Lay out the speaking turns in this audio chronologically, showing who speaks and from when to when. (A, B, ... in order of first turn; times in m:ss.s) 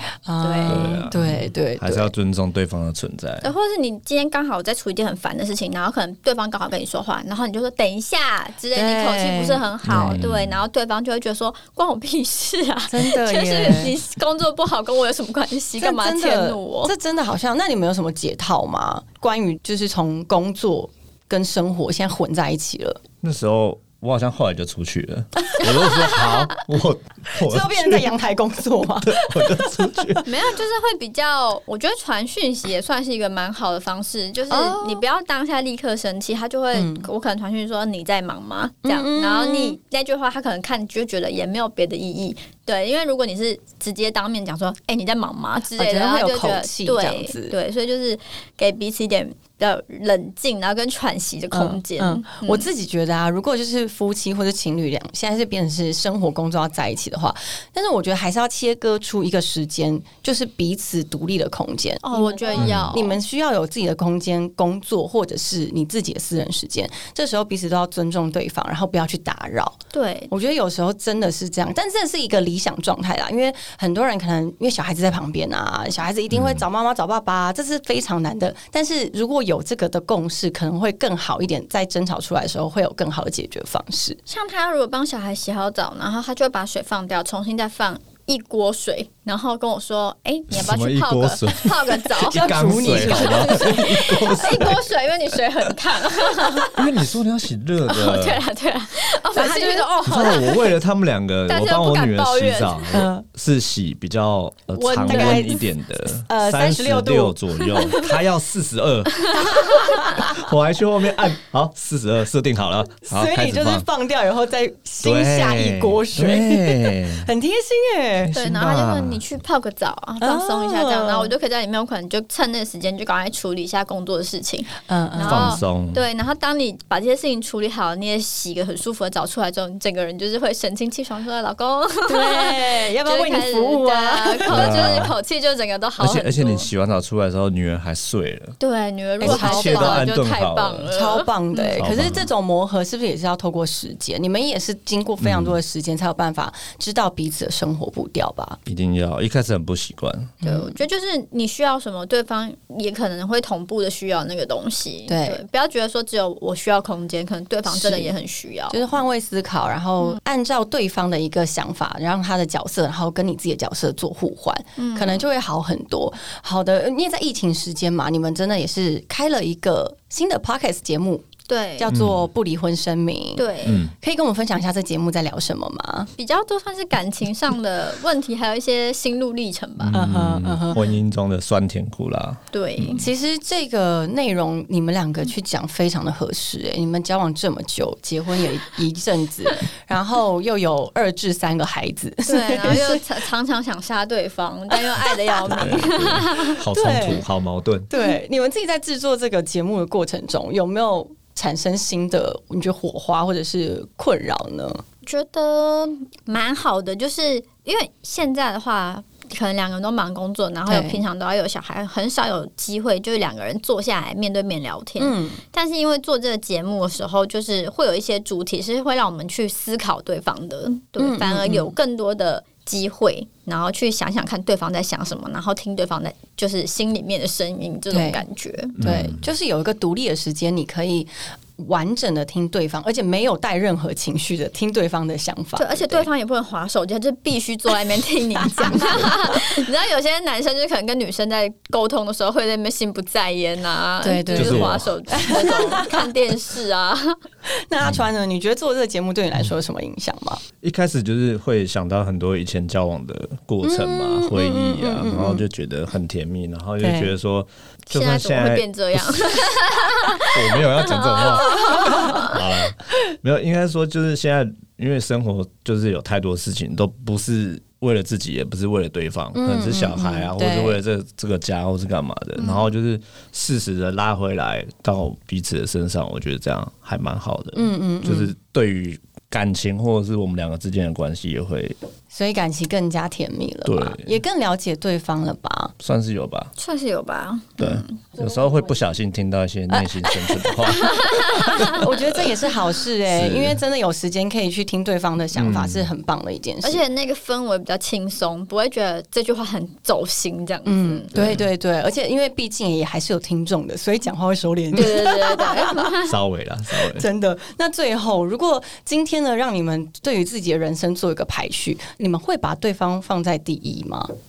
0:00.2-0:02.1 A
0:00.4-0:01.1 B
0:00.7-0:03.5 C
0:03.4-0:16.9 B
0:08.7-0:09.6 A
0:09.8-0:10.6 C
0:12.9-0:14.0 A
0:15.8-0:23.0 A
0:23.2-0:28.1 C
0:25.9-0:26.3 B
0:27.4-0:30.1 A
0:29.0-0:30.3 C
0:30.2-0:52.7 B
0:34.5-0:35.0 A
0:36.7-0:37.1 A
0:38.8-0:39.8 A
0:45.8-0:47.6 A
0:51.5-1:09.8 A
1:02.0-1:03.2 B
1:02.6-1:02.9 C
1:09.9-1:10.3 B
1:10.3-1:24.2 A
1:16.3-1:16.6 C
1:24.3-1:36.8 B
1:30.5-1:34.8 C
1:32.2-1:34.6 A
1:36.7-1:38.4 C
1:37.9-1:40.7 B
1:39.3-1:40.0 A
1:40.1-1:53.9 C
1:41.5-1:43.0 B
1:42.9-1:43.3 A
1:44.8-1:45.6 A
1:45.0-1:45.6 B
1:46.3-1:48.2 A
1:49.2-1:50.0 B
1:49.7-1:50.4 A
1:53.1-1:58.3 A
1:55.0-1:57.3 C
1:58.2-1:59.2 C
1:58.3-2:16.7 B
2:00.2-2:01.3 A
2:04.9-2:05.6 A
2:05.2-2:06.0 C
2:12.1-2:15.1 A
2:14.5-2:15.1 C
2:16.0-2:18.6 C
2:18.6-2:21.9 B
2:19.2-2:20.1 A
2:19.2-2:20.9 C
2:20.9-2:28.6 A
2:21.8-2:22.3 C
2:25.2-2:25.6 C
2:28.7-2:30.4 C
2:30.4-2:30.8 A
2:30.4-2:38.8 B
2:35.1-2:35.4 A
2:37.7-2:38.1 A
2:38.7-2:51.3 A
2:44.8-2:45.3 B
2:51.5-2:51.9 B
2:51.8-2:56.1 A
2:51.9-2:52.2 C
2:53.4-2:53.9 B
2:53.6-2:53.9 C
2:56.2-3:00.0 B
2:59.8-3:03.0 C
2:59.9-3:00.8 A
3:02.5-3:03.0 B
3:03.0-3:13.0 A
3:12.3-3:16.6 B
3:14.9-3:17.2 A
3:15.5-3:17.9 C
3:17.9-3:24.8 A
3:25.1-3:48.9 B
3:30.7-3:31.0 A
3:35.0-3:35.4 A
3:41.0-3:41.7 A
3:47.9-3:48.2 A
3:48.8-3:56.1 A
3:48.8-3:49.3 C
3:55.6-4:07.2 B
3:58.5-3:59.0 A
4:04.0-4:06.1 A
4:04.3-4:04.9 C
4:07.7-4:10.4 A
4:10.6-4:19.5 C
4:13.6-4:15.4 A
4:16.8-4:17.1 A
4:17.9-4:22.4 B
4:20.2-4:41.8 C
4:21.7-4:22.3 A
4:29.3-4:30.8 A
4:32.4-4:32.7 B
4:37.6-4:38.3 A
4:42.1-4:45.7 A
4:43.6-4:44.2 C
4:45.8-4:46.5 C
4:46.6-4:48.1 B
4:47.6-4:51.9 C
4:49.7-4:56.8 A
4:50.7-4:51.9 B
4:53.1-4:53.6 C
4:55.4-4:55.9 C
4:56.6-5:01.1 B
5:00.7-5:06.0 A
5:01.2-5:01.4 C
5:04.7-5:06.1 B
5:06.0-5:07.1 C
5:06.8-5:14.1 A